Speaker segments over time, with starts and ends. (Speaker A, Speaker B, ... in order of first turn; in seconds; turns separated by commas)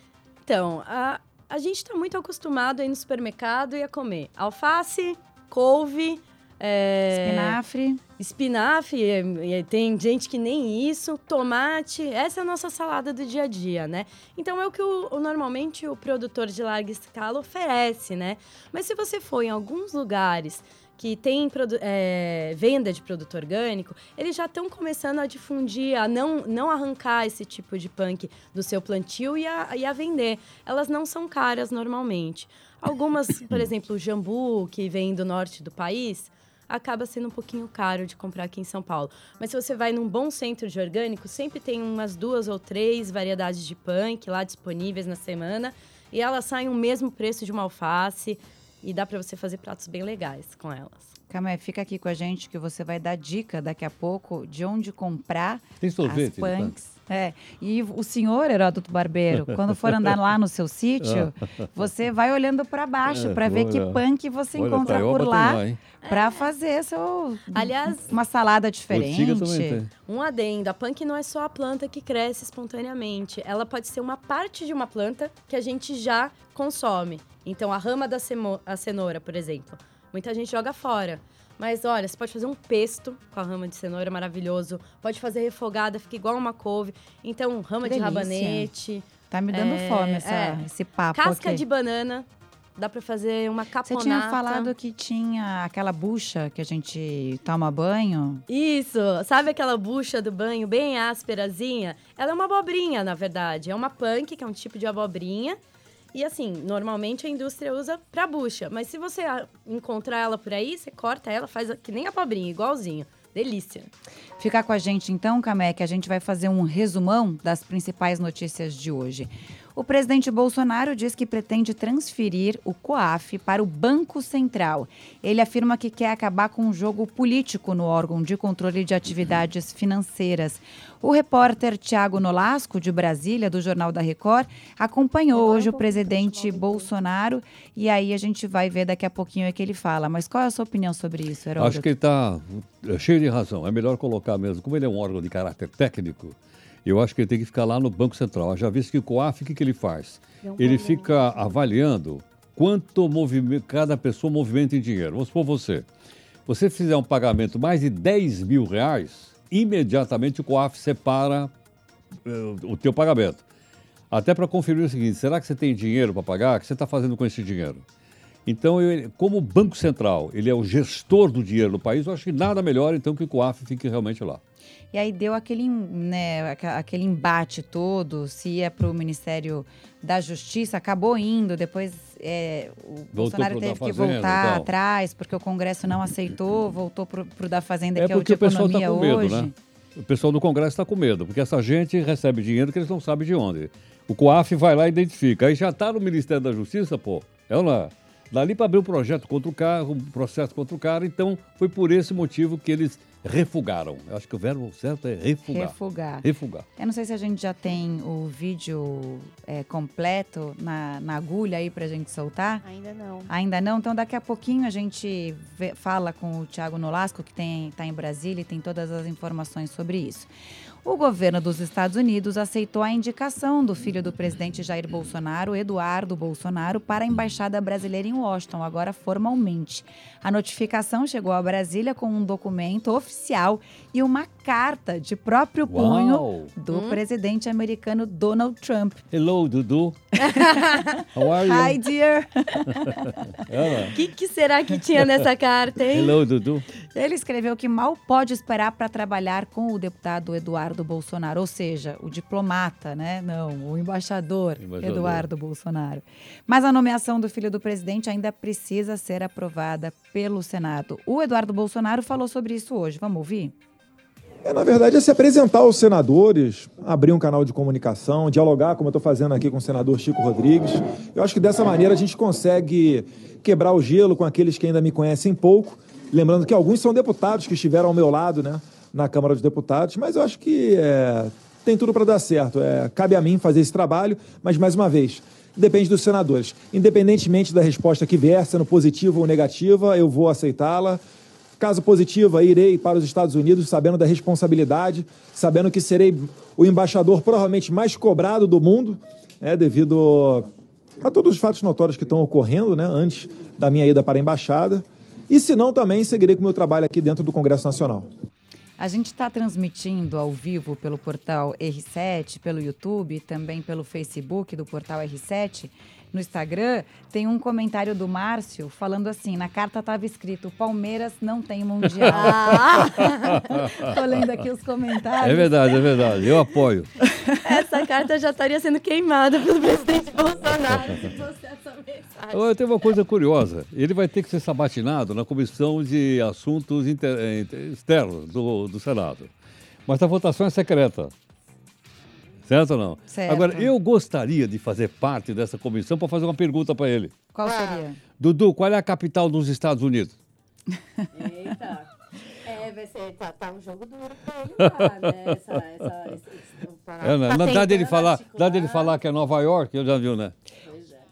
Speaker A: 0.5-7.6, Speaker B: 7.1-8.0, Speaker A: 8.2-51.1, Speaker B: 51.3-69.8, Speaker C: 55.8-56.7, Speaker C: 61.0-61.3, Speaker C: 63.1-64.0, Speaker C: 64.5-65.8, Speaker A: 66.0-66.4, Speaker A: 67.5-68.0, Speaker C: 68.9-69.9, Speaker A: 70.1-94.7, Speaker B: 87.8-88.7, Speaker B: 89.3-91.6, Speaker B: 93.8-98.4, Speaker A: 98.5-105.6, Speaker A: 106.1-113.9, Speaker B: 114.4-141.9, Speaker C: 141.6-155.9, Speaker C: 156.5-161.5, Speaker C: 162.2-163.4, Speaker C: 164.1-167.8, Speaker C: 168.5-174.4, Speaker B: 174.9-189.5, Speaker C: 183.2-184.7, Speaker C: 188.0-206.7, Speaker B: 205.5-206.3, Speaker B: 206.8-212.7, Speaker A: 212.7-213.3, Speaker B: 213.3-220.3, Speaker B: 220.8-239.0, Speaker C: 235.7-236.5, Speaker A: 236.7-237.0, Speaker C: 239.1-240.2, Speaker A: 240.3-240.9, Speaker B: 240.4-243.3, Speaker C: 241.1-241.8, Speaker C: 243.4-243.9, Speaker A: 243.9-246.2, Speaker C: 245.9-246.7, Speaker B: 246.9-263.6, Speaker C: 254.6-255.2, Speaker D: 264.4-291.0, Speaker D: 291.6-300.5, Speaker D: 301.0-308.1, Speaker B: 308.8-325.9, Speaker A: 322.1-323.6, Speaker C: 325.2-326.9, Speaker B: 327.1-327.4, Speaker A: 327.4-332.4, Speaker C: 332.3-339.3, Speaker C: 339.9-341.1, Speaker C: 342.5-347.1, Speaker B: 343.1-343.7, Speaker B: 347.3-348.0, Speaker C: 348.2-350.1, Speaker A: 351.1-351.9, Speaker A: 352.4-358.9, Speaker C: 354.6-354.9, Speaker C: 357.0-360.4, Speaker A: 360.7-361.0